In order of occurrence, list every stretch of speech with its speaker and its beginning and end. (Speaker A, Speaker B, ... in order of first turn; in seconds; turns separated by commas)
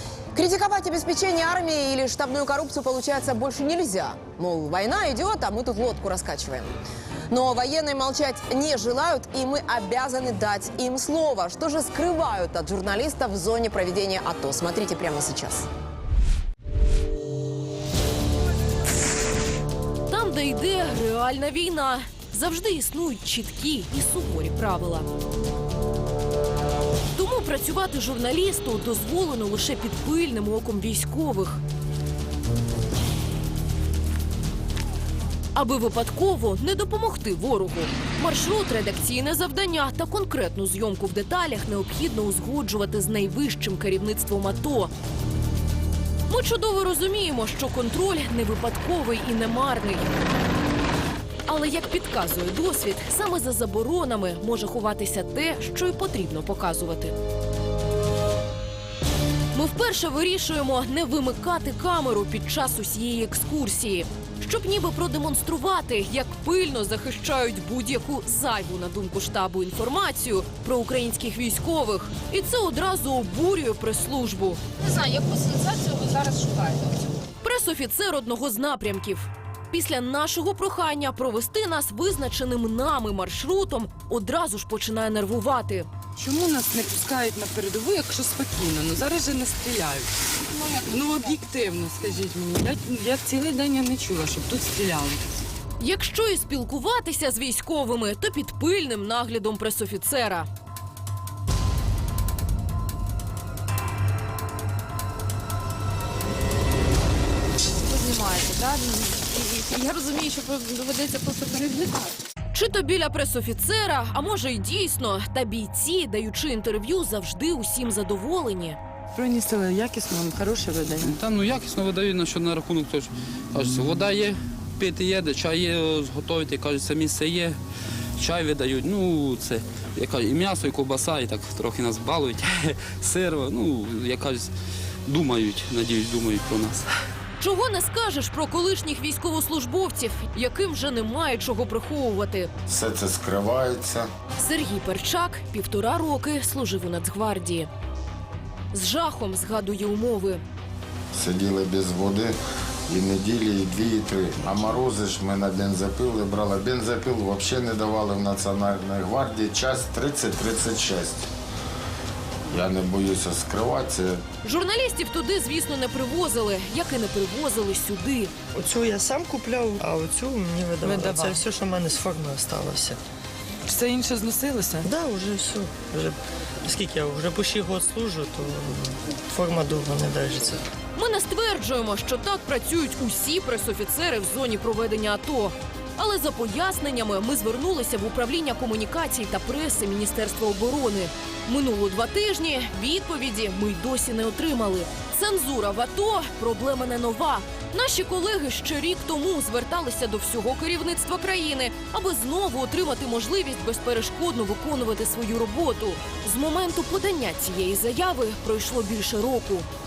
Speaker A: 0.3-6.7, Speaker A: 7.3-15.7, Speaker B: 20.1-25.1, Speaker B: 27.1-31.6, Speaker B: 35.5-44.9, Speaker B: 46.3-50.1, Speaker B: 51.5-57.1, Speaker B: 59.5-74.6, Speaker C: 74.8-77.1, Speaker B: 77.4-85.9, Speaker D: 86.2-95.3, Speaker B: 95.8-100.5, Speaker C: 107.8-112.1, Speaker B: 112.5-118.8, Speaker D: 119.2-121.2, Speaker E: 121.0-127.6, Speaker E: 128.2-134.5, Speaker E: 135.1-136.9, Speaker B: 137.4-142.5, Speaker F: 142.7-144.1, Speaker B: 144.4-147.7, Speaker B: 148.7-150.4, Speaker F: 151.1-152.3, Speaker F: 152.9-161.3, Speaker F: 162.5-164.2, Speaker B: 164.4-168.3, Speaker G: 168.6-173.0, Speaker D: 170.8-171.4, Speaker D: 173.7-174.9, Speaker G: 174.8-180.7, Speaker B: 180.9-209.7